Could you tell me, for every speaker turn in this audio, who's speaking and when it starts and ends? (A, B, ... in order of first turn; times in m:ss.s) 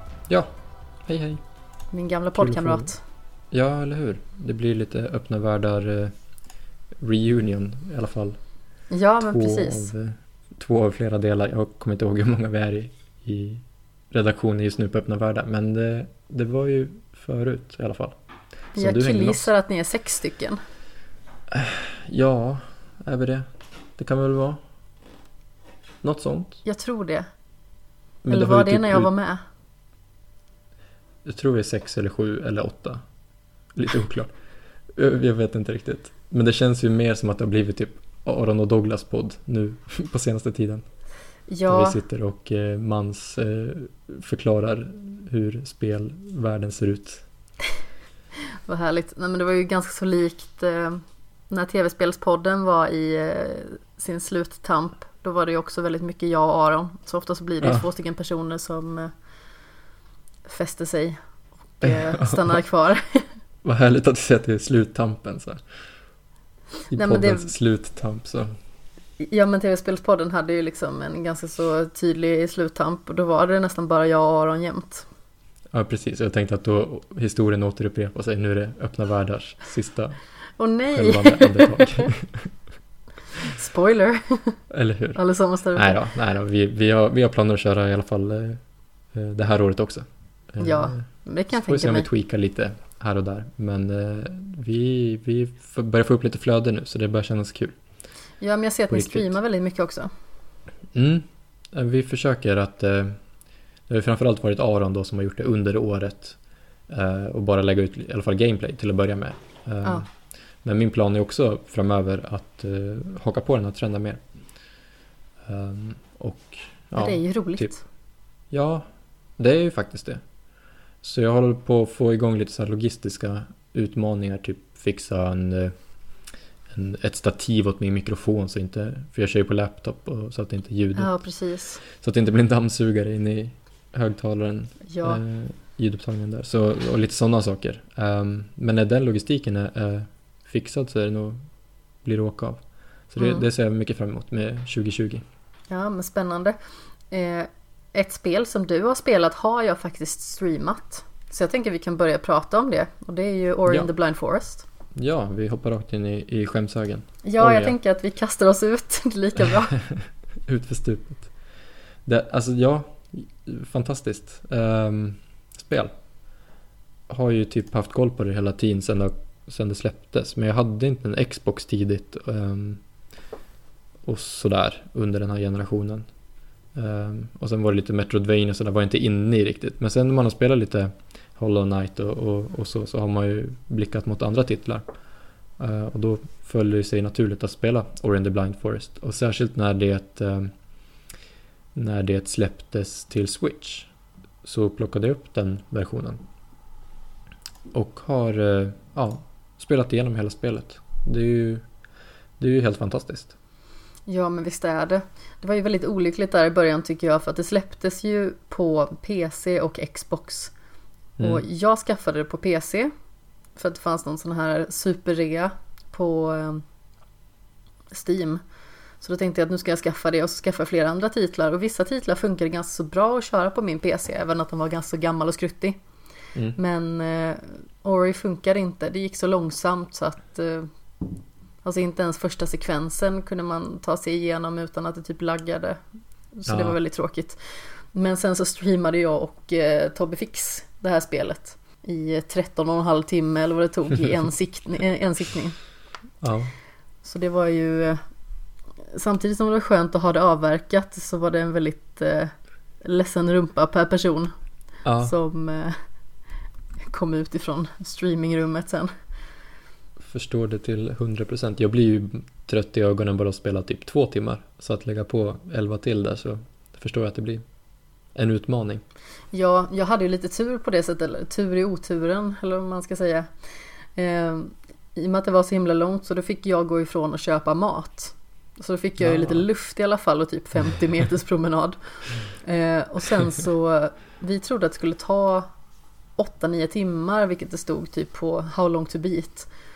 0:01.0-0:01.4 A
0:01.9-0:03.0 B
0:02.3-0:02.9 A
0:03.5-0:06.1 A
0:07.0-0:08.4 A
0:08.9-0:09.9 B
0:09.2-0:18.1 A
0:18.7-0:19.5 A
0:18.7-0:20.6 B
0:21.5-0:24.6 A
0:26.0-0:26.6 A
0:26.6-0:27.2 B
0:28.2-0:29.1 A
0:28.3-0:29.4 B
0:31.2-0:33.0 A
0:33.7-0:34.3 A
0:34.9-0:40.8 A
0:41.5-0:42.0 B
0:41.7-0:47.2 A
0:48.7-0:59.1 B
1:00.4-1:01.2 B
1:01.7-1:03.2 B
1:01.8-1:02.6 A
1:03.6-1:05.6 A
1:06.9-1:08.5 A
1:06.9-1:07.5 B
1:09.2-1:15.1 B
1:15.7-1:20.2 A
1:20.6-1:22.1 B
1:20.9-1:22.5 A
1:23.3-1:24.6 B
1:24.7-1:25.2 A
1:25.1-1:26.0 B
1:25.7-1:28.6 A
1:29.1-1:37.8 A
1:30.6-1:32.1 B
1:38.4-1:40.1 B
1:38.9-1:39.3 A
1:40.9-1:43.2 A
1:43.9-1:50.1 A
1:50.6-1:54.2 A
1:55.4-1:57.7 A
1:57.0-1:57.8 B
1:58.5-1:58.8 A
1:59.4-2:00.2 A
2:01.0-2:05.7 A
2:06.7-2:11.1 A
2:11.0-2:11.8 B
2:11.8-2:21.4 A
2:14.8-2:15.2 B
2:22.0-2:25.2 A
2:23.2-2:23.4 B
2:25.7-2:26.6 B
2:27.1-2:34.6 B
2:34.9-2:37.8 A
2:37.2-2:39.8 B
2:39.8-2:41.3 A
2:42.0-2:45.9 A
2:47.1-2:52.8 A
2:54.0-2:56.0 A
2:56.7-3:04.9 A
3:05.6-3:10.5 A
3:11.7-3:13.9 A
3:14.4-3:16.2 A
3:17.7-3:21.6 A
3:22.4-3:23.3 A
3:24.1-3:30.5 B
3:31.2-3:32.9 B
3:33.6-3:36.6 B
3:37.9-3:38.4 B
3:39.0-3:45.8 B
3:46.5-3:50.7 B
3:51.6-3:55.8 B
3:56.3-4:05.6 B
3:56.5-3:56.8 A
4:06.2-4:06.5 A
4:07.0-4:08.0 B
4:08.9-4:14.3 B
4:14.8-4:15.1 A
4:15.0-4:15.8 B
4:16.8-4:18.9 B
4:20.0-4:27.4 A
4:28.1-4:28.8 A
4:29.3-4:33.3 B
4:33.9-4:45.5 B
4:39.0-4:39.4 A
4:46.2-4:49.5 B